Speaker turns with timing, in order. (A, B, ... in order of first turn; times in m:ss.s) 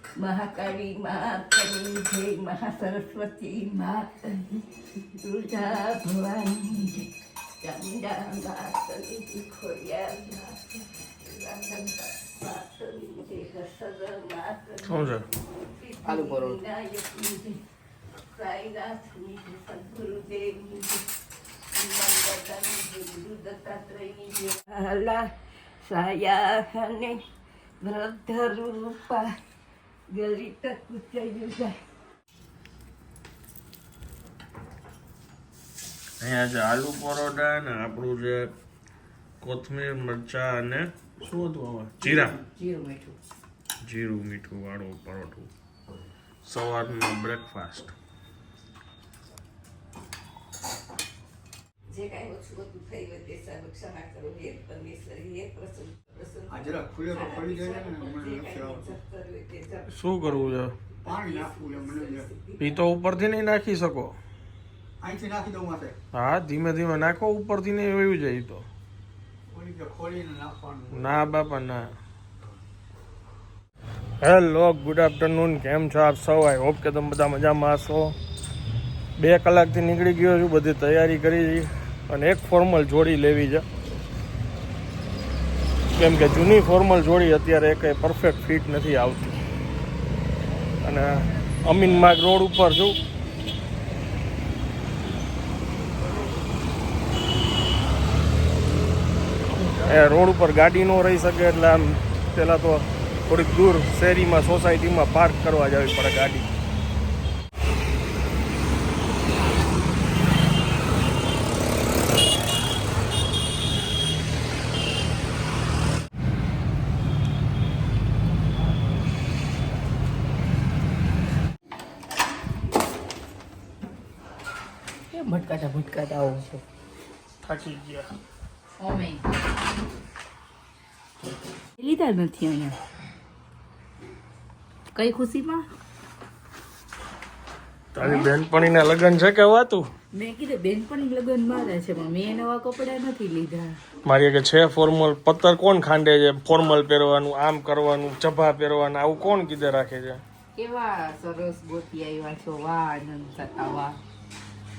0:00.2-0:04.7 A
0:05.2-0:07.1 A
0:07.6-0:17.6 A
0:14.8-0:15.2 B
0:16.0-0:16.6 C
0:18.2-0:21.0 A
0:21.7-0:25.3 A
0:25.8-0:27.2 A
0:27.8-0:29.3 A
0:30.1-0:31.8 A
0:36.2-0:38.5 B
0:39.4-0:42.4 B
0:42.0-0:43.2 C
0:43.8-0:45.5 B
0:46.4-0:47.9 B
0:51.9-1:00.4 A
0:56.5-0:58.9 D
0:59.9-1:00.7 B
1:01.0-1:02.9 A
1:01.1-1:02.3 D
1:02.6-1:04.2 B
1:05.0-1:06.0 D
1:06.1-1:08.7 B
1:09.5-1:11.3 D
1:10.9-1:11.9 B
1:14.2-1:18.2 B
1:19.2-1:23.6 B
1:26.0-1:29.4 B
1:30.8-1:33.0 B
1:39.8-1:46.5 B
2:05.1-2:06.6 C
2:07.4-2:08.1 B
2:08.8-2:09.2 C
2:11.8-2:12.8 C
2:15.0-2:15.7 C
2:18.0-2:19.9 B
2:18.0-2:18.4 C
2:20.1-2:23.8 C
2:24.0-2:30.2 B
2:30.6-2:34.0 C